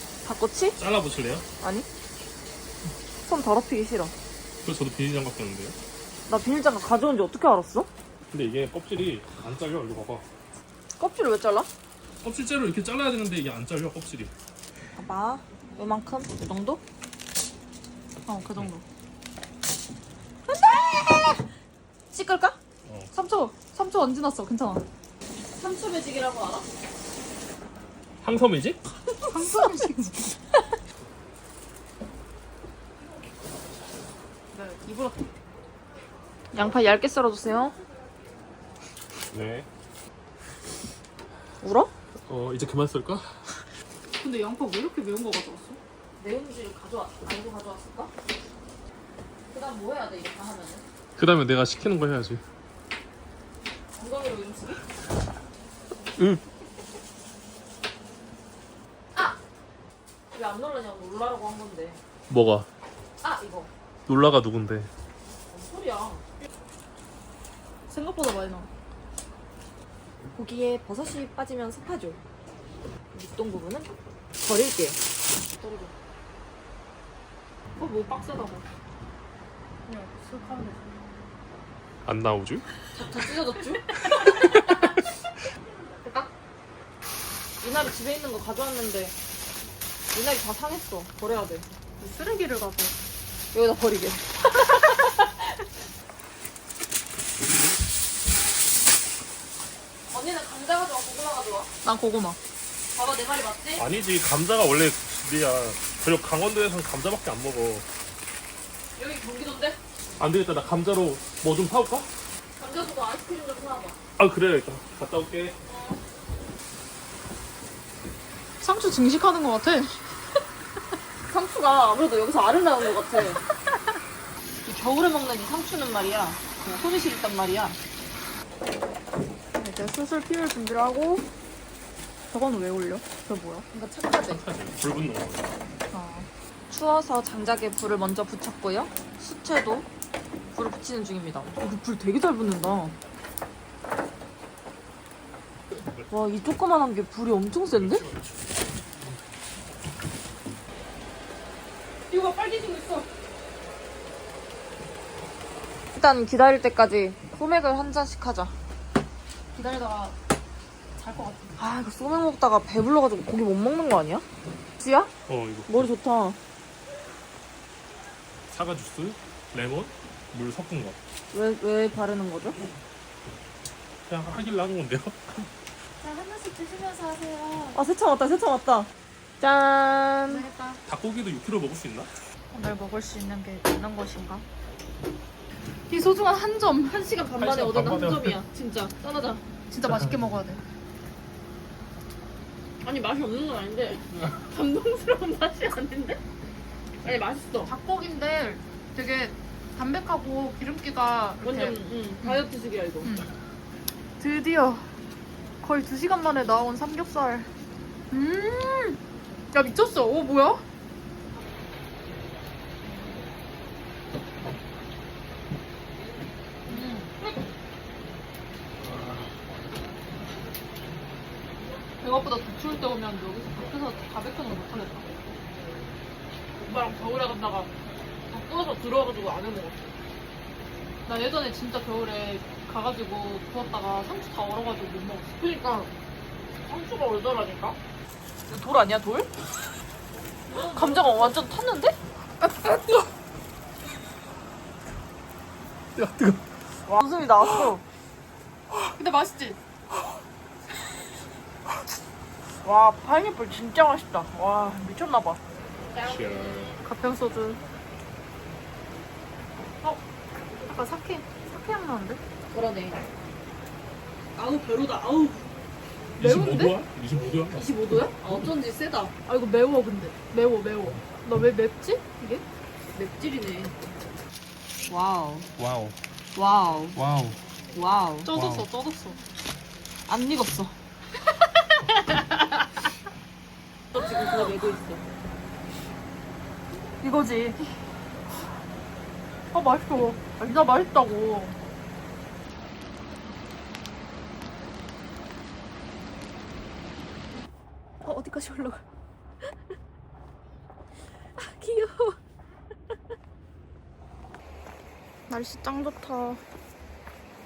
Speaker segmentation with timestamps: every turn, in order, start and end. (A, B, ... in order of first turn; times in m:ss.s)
0:00.2-0:00.8 A
0:00.8-0:01.5 B
0:01.6-0:01.9 A
0:03.2-0:04.1 A
0:04.6-0:05.8 B
0:06.3-0:07.9 A
0:08.3-0:10.2 B
0:11.0-0:11.7 A
0:12.2-0:14.3 B
0:15.0-0:16.8 A
0:18.3-0:18.8 C
0:20.5-0:21.4 A
0:22.1-0:22.6 A
0:22.8-0:23.1 B
0:23.1-0:24.9 C
0:25.4-0:26.7 A
0:28.2-0:28.8 B
0:29.3-0:30.4 C
0:29.4-0:29.7 A
0:34.5-0:35.3 C
0:36.5-0:37.8 A
0:39.3-0:39.7 B
0:41.6-0:41.9 A
0:42.3-0:43.6 B
0:44.2-0:45.8 C
0:46.2-0:48.1 A
0:49.5-0:50.8 A
0:51.2-0:52.4 B
0:54.0-0:54.9 A
1:00.3-1:02.0 A
1:02.3-1:02.7 B
1:03.2-1:03.7 A
1:04.1-1:04.9 B
1:05.5-1:06.3 A
1:07.9-1:08.7 C
1:10.3-1:12.2 A
1:13.1-1:15.0 A
1:15.6-1:15.9 A
1:17.8-1:18.6 C
1:19.9-1:21.0 C
1:22.0-1:22.7 B
1:22.9-1:24.7 A
1:27.6-1:29.1 A
1:30.1-1:31.7 A
1:32.0-1:32.9 C
1:33.5-1:35.3 A
1:40.1-1:41.7 A
1:41.8-1:42.4 C
1:43.0-1:43.8 A
1:43.8-1:47.9 B
1:49.0-1:49.8 A
1:50.2-1:52.1 B
1:52.6-1:54.0 A
1:54.2-1:55.6 B
1:55.7-1:56.0 A
1:58.6-2:00.0 C
2:01.3-2:03.4 A
2:04.6-2:07.8 A
2:09.6-2:11.3 C
2:12.3-2:13.6 C
2:13.2-2:14.4 A
2:14.2-2:15.5 B
2:15.9-2:16.3 C
2:16.7-2:19.9 A
2:20.5-2:23.0 A
2:26.1-2:28.1 A
2:27.7-2:29.2 B
2:32.1-2:33.1 C
2:36.0-2:38.6 A
2:39.5-2:40.2 C
2:41.0-2:41.6 C
2:41.6-2:44.2 A
2:44.8-2:45.1 A
2:45.3-2:45.9 B
2:45.7-2:46.4 A
2:48.5-2:51.0 B
2:51.3-2:52.6 A
2:54.1-2:55.5 B
2:56.0-2:57.8 C
2:57.7-3:00.5 A
3:00.3-3:00.8 C
3:00.9-3:02.1 B
3:02.5-3:04.4 C
3:05.9-3:07.0 C
3:06.9-3:09.4 A
3:07.4-3:08.4 B
3:09.7-3:10.6 C
3:09.9-3:10.2 B
3:12.8-3:16.2 A
3:17.0-3:17.7 A
3:17.6-3:22.5 C
3:21.4-3:23.2 A
3:23.0-3:23.3 C
3:24.2-3:24.9 C
3:25.6-3:27.5 C
3:28.1-3:29.0 C
3:29.5-3:30.6 C
3:36.7-3:37.1 C
3:42.0-3:45.1 C
3:46.6-3:47.7 A
3:48.3-3:49.8 A
3:51.1-3:55.4 C
3:55.4-3:55.9 A
3:56.6-3:57.8 A
3:58.5-3:59.3 A
4:00.5-4:01.0 C
4:00.6-4:02.5 A
4:06.0-4:06.4 B
4:06.9-4:07.8 A
4:09.0-4:09.6 C
4:12.6-4:15.4 A
4:15.9-4:16.8 B
4:16.8-4:17.6 C
4:20.6-4:22.2 C
4:22.5-4:23.0 A
4:24.4-4:25.5 A
4:26.2-4:26.8 C
4:26.2-4:27.6 B
4:27.5-4:29.1 A
4:29.2-4:32.4 C
4:32.9-4:33.7 A
4:34.9-4:35.5 A
4:35.6-4:36.0 B
4:36.4-4:37.0 A
4:37.0-4:37.4 B
4:37.7-4:38.3 A
4:38.2-4:39.2 C
4:38.3-4:38.7 B
4:40.1-4:40.8 A
4:43.9-4:45.0 A
4:47.0-4:47.6 A
4:49.5-4:51.6 C
4:58.0-4:58.8 C
5:01.4-5:02.2 C
5:05.3-5:06.4 C